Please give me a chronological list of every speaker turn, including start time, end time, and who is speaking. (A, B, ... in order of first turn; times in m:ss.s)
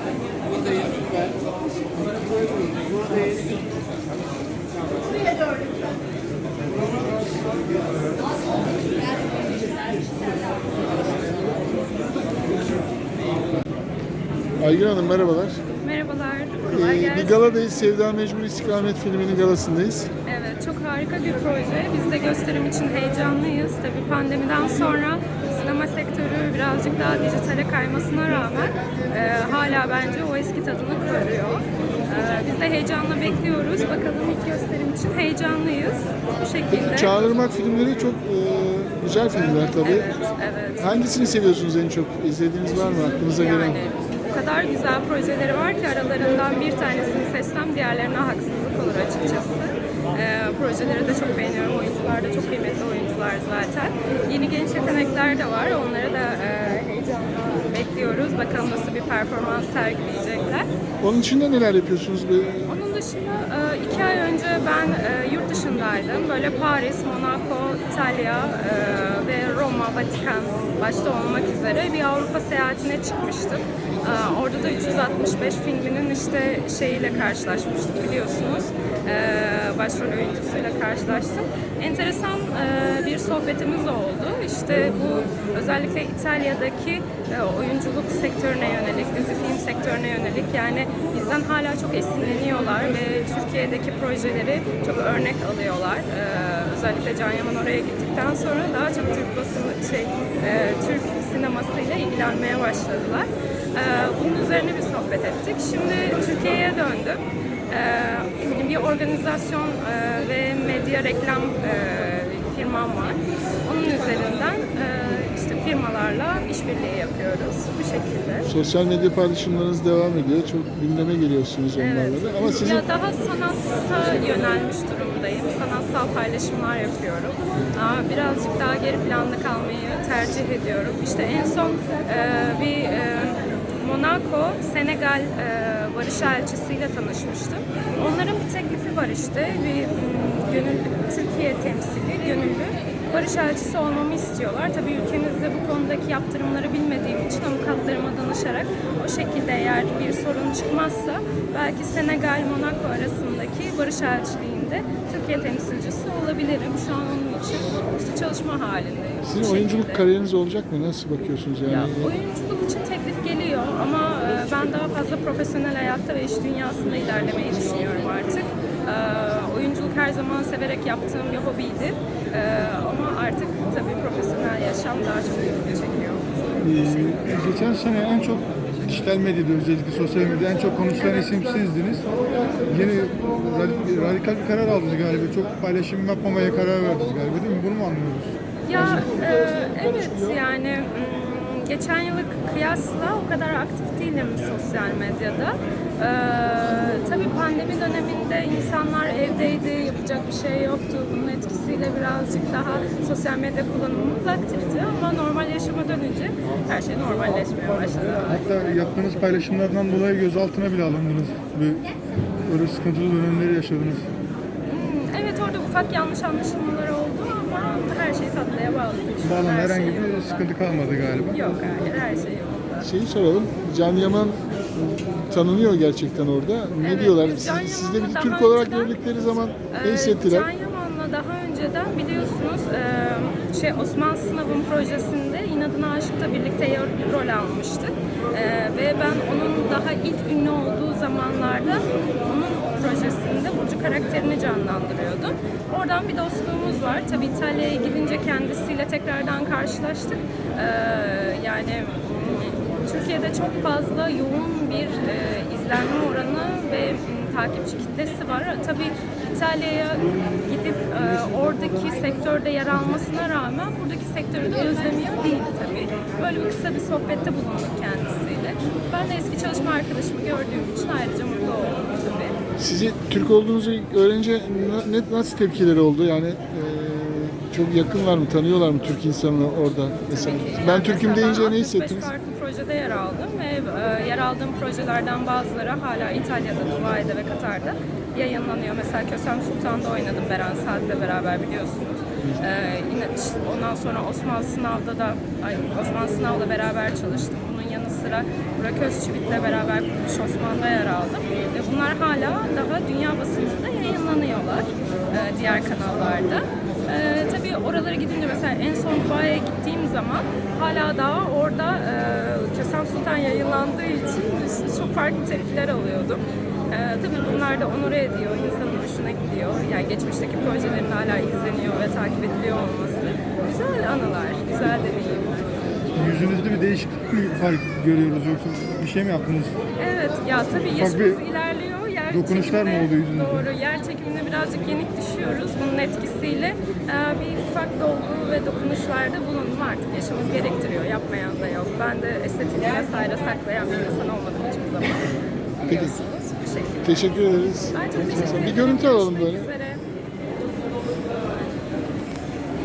0:14.6-0:15.6 A
0:15.8-0:17.5 B
0:16.7-0:20.1 A
0:20.2-0:37.2 B
0:36.7-0:40.1 A
0:39.8-0:41.1 B
0:40.8-0:43.8 A
0:43.3-1:00.7 B
1:01.0-1:02.7 A
1:02.7-1:58.5 B
1:58.4-2:02.8 A
2:01.8-2:40.1 B
2:39.2-2:42.2 A
2:41.7-2:56.2 B
2:56.6-3:09.1 C
3:08.6-3:28.5 B
3:09.2-3:09.8 A
3:28.2-3:31.8 C
3:32.5-3:34.1 C
3:34.7-3:40.5 B
3:39.2-3:41.4 C
3:41.3-3:42.9 B
3:42.8-3:50.5 A
3:46.8-3:49.0 B
3:49.7-4:32.4 B
4:32.6-4:42.1 A
4:40.1-5:25.4 B
5:25.9-5:29.6 C
5:29.8-5:49.8 B
5:30.6-5:31.2 C
5:32.1-5:33.4 C
5:45.6-5:46.0 A
5:46.8-5:49.5 A
5:48.1-5:48.5 C